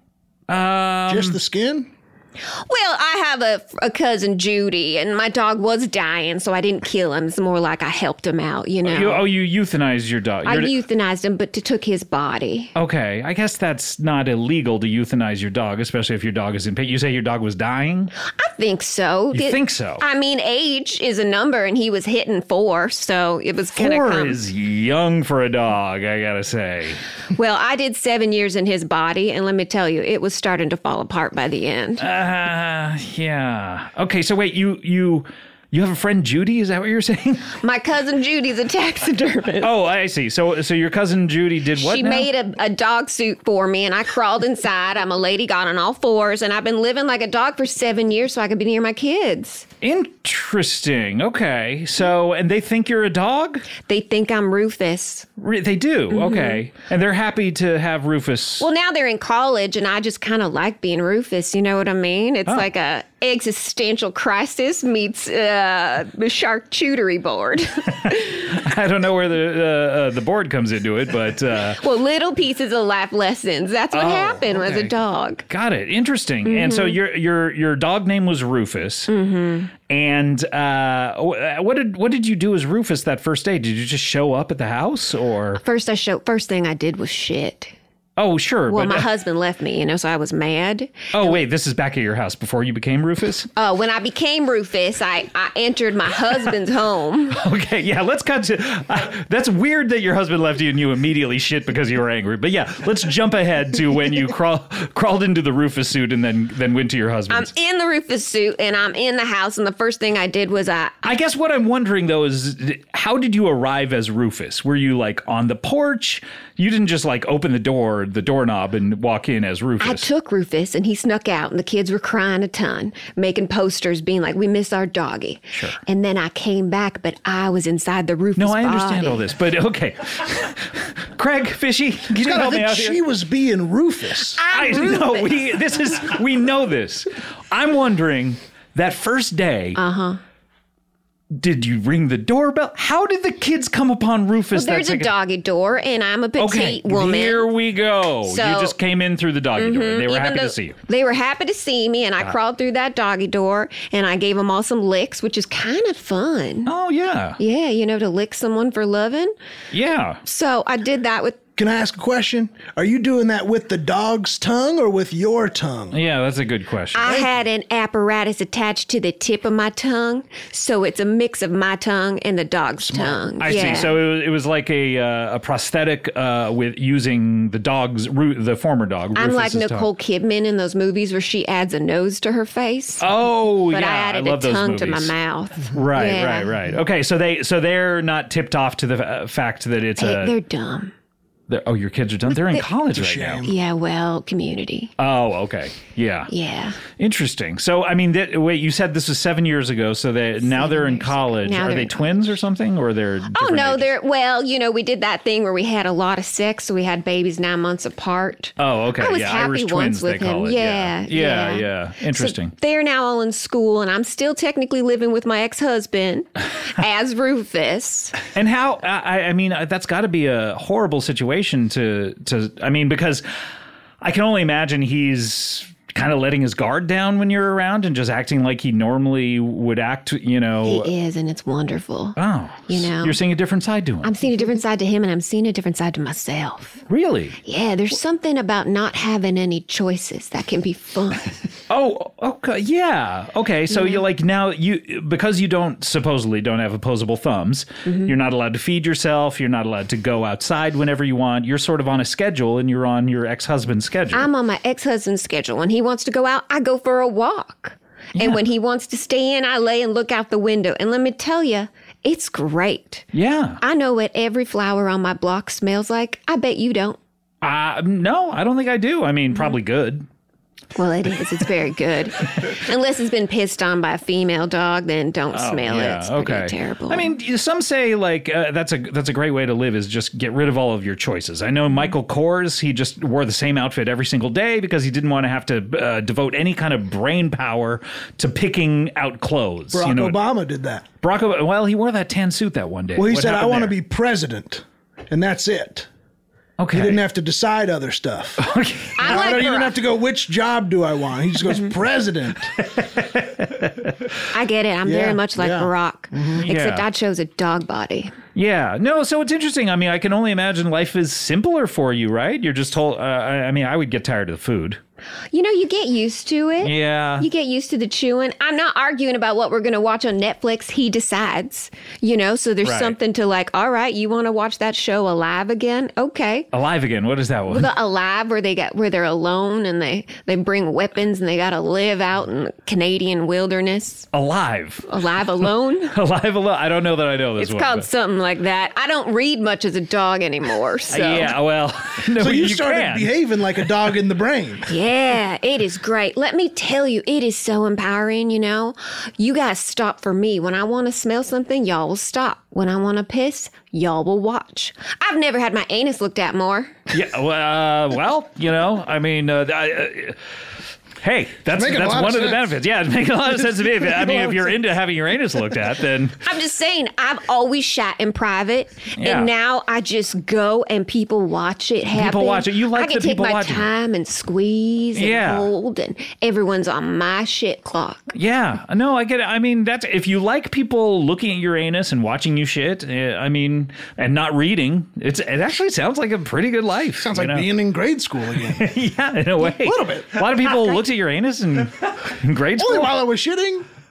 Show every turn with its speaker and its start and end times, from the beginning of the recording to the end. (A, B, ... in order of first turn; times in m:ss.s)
0:00.5-0:01.4 A
0:01.1-0:01.9 B
0:02.6-0:09.3 C
0:08.8-0:10.8 A
0:10.4-0:12.7 C
0:12.8-0:18.1 A
0:18.4-0:24.4 C
0:19.3-0:20.0 A
0:23.7-0:27.0 A
0:27.3-0:32.0 C
0:32.0-0:37.5 A
0:37.6-0:39.7 C
0:39.6-0:42.3 A
0:41.7-0:49.7 C
0:49.8-0:53.7 A
0:53.8-0:55.3 C
0:55.4-0:58.7 A
0:56.1-0:56.6 C
0:58.6-1:08.5 C
1:08.5-1:11.8 A
1:11.8-1:15.4 C
1:13.9-1:15.0 A
1:15.5-1:19.1 A
1:16.4-1:17.0 C
1:19.1-1:19.7 C
1:19.9-1:25.6 A
1:25.6-1:27.7 C
1:28.2-1:29.1 A
1:28.7-1:31.4 C
1:31.1-1:33.5 A
1:33.6-1:37.4 C
1:37.3-1:47.5 A
1:47.3-1:51.0 C
1:51.0-2:00.1 A
1:59.8-2:09.2 C
2:08.4-2:13.0 A
2:12.2-2:14.4 B
2:14.4-2:15.4 C
2:14.5-2:19.8 A
2:19.7-2:20.2 C
2:21.4-2:25.1 A
2:24.5-2:27.5 C
2:26.4-2:30.8 A
2:28.2-2:28.8 C
2:29.5-2:36.7 C
2:36.6-2:37.4 A
2:37.4-2:39.3 C
2:39.7-2:40.2 A
2:40.2-2:41.4 C
2:41.6-2:46.0 B
2:45.9-2:47.3 A
2:46.9-2:54.0 C
2:52.8-2:53.6 B
2:53.4-2:59.9 A
2:59.1-3:03.1 C
3:03.0-3:05.1 A
3:03.7-3:06.5 C
3:05.7-3:10.3 A
3:10.0-3:10.9 C
3:11.5-3:13.5 A
3:12.3-3:12.6 C
3:12.9-3:13.5 B
3:13.4-3:14.9 C
3:15.0-3:16.3 A
3:16.3-3:16.8 C
3:16.9-3:23.9 A
3:20.4-3:22.4 C
3:23.3-3:38.2 C
3:28.6-3:32.5 A
3:38.3-3:43.2 A
3:44.0-3:50.9 A
3:50.6-3:52.2 C
3:52.2-3:54.2 A
3:52.7-3:53.2 C
3:54.0-3:56.8 C
3:56.9-3:57.4 A
3:57.4-4:01.3 C
4:01.7-4:14.3 A
4:03.7-4:04.0 C
4:07.8-4:08.1 C
4:14.1-4:23.0 C
4:18.2-4:18.4 A
4:23.1-4:23.6 A
4:23.6-4:27.0 C
4:27.4-4:30.0 A
4:30.7-4:37.1 C
4:35.3-4:50.2 A
4:49.7-4:50.8 B
4:51.0-4:53.7 A
4:53.0-4:55.9 B
4:56.6-4:57.0 A
4:56.7-4:58.4 B
4:58.4-4:59.5 A
4:59.0-4:59.8 C
4:59.0-5:02.5 B
5:02.6-5:03.9 A
5:04.3-5:08.2 C
5:04.8-5:06.4 B
5:06.4-5:06.8 A
5:08.3-5:14.8 A
5:15.3-5:26.5 C
5:16.6-5:17.3 A
5:22.6-5:23.0 A
5:26.5-5:27.7 A
5:27.5-5:34.1 C
5:34.1-5:34.9 A
5:34.9-5:36.0 C
5:35.9-5:37.9 A
5:37.4-5:41.4 C
5:40.9-5:43.1 A
5:42.2-5:44.7 B
5:44.7-5:56.8 C
5:56.9-6:00.2 A
6:01.0-6:06.2 A
6:01.5-6:02.5 B
6:03.6-6:04.5 B
6:06.2-6:18.1 C
6:09.0-6:09.3 A
6:11.9-6:13.7 A
6:15.0-6:15.5 A
6:18.1-6:27.5 A
6:27.0-6:28.7 B
6:28.5-6:33.0 A
6:29.5-6:30.2 B
6:32.6-6:33.6 B